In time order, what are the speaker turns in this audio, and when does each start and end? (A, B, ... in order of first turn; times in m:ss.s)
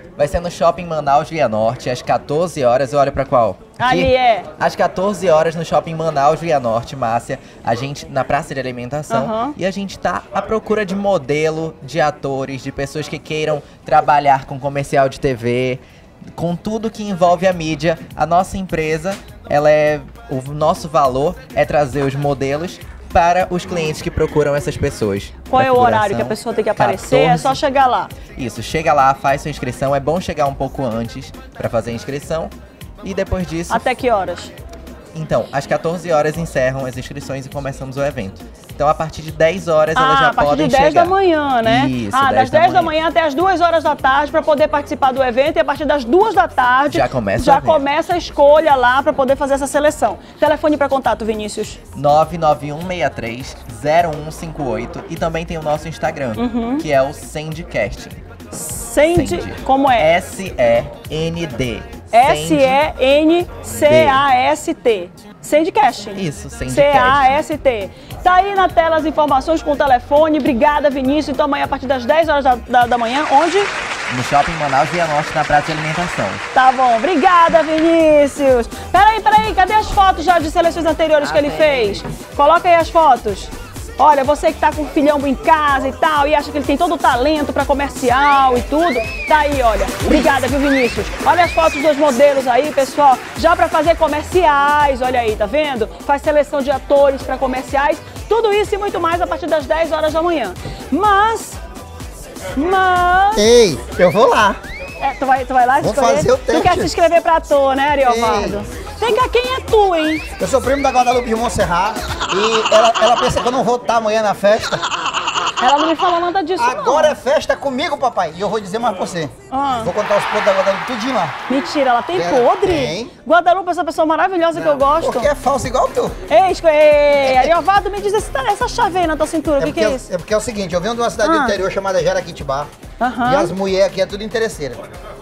0:00.2-0:15.8 A
0:03.8-0:04.5 B
0:09.1-0:09.6 B
0:16.4-0:27.6 A
0:25.5-0:28.1 B
0:28.4-0:33.8 A
0:33.7-0:34.5 B
0:35.1-0:42.9 A
0:39.9-0:51.8 B
0:46.9-0:47.8 A
0:52.0-0:58.2 A
0:56.4-0:56.8 B
0:58.5-1:00.1 B
0:59.1-1:02.8 A
1:02.1-1:13.7 B
1:03.7-1:04.2 A
1:06.2-1:07.4 A
1:14.1-1:16.4 A
1:16.5-1:41.6 B
1:21.2-1:22.0 A
1:42.6-1:43.5 B
1:43.4-1:44.6 C
1:45.0-1:50.3 B
1:45.8-1:46.9 C
1:48.0-1:48.6 C
1:50.4-1:54.8 C
1:55.6-1:57.2 B
1:56.6-2:01.4 C
1:59.5-1:59.9 B
2:01.5-2:05.3 B
2:02.1-2:03.1 C
2:04.5-2:06.2 C
2:06.3-2:10.1 B
2:07.2-2:07.5 C
2:09.6-2:12.7 C
2:11.2-2:11.6 B
2:13.0-2:13.5 B
2:13.2-2:14.8 C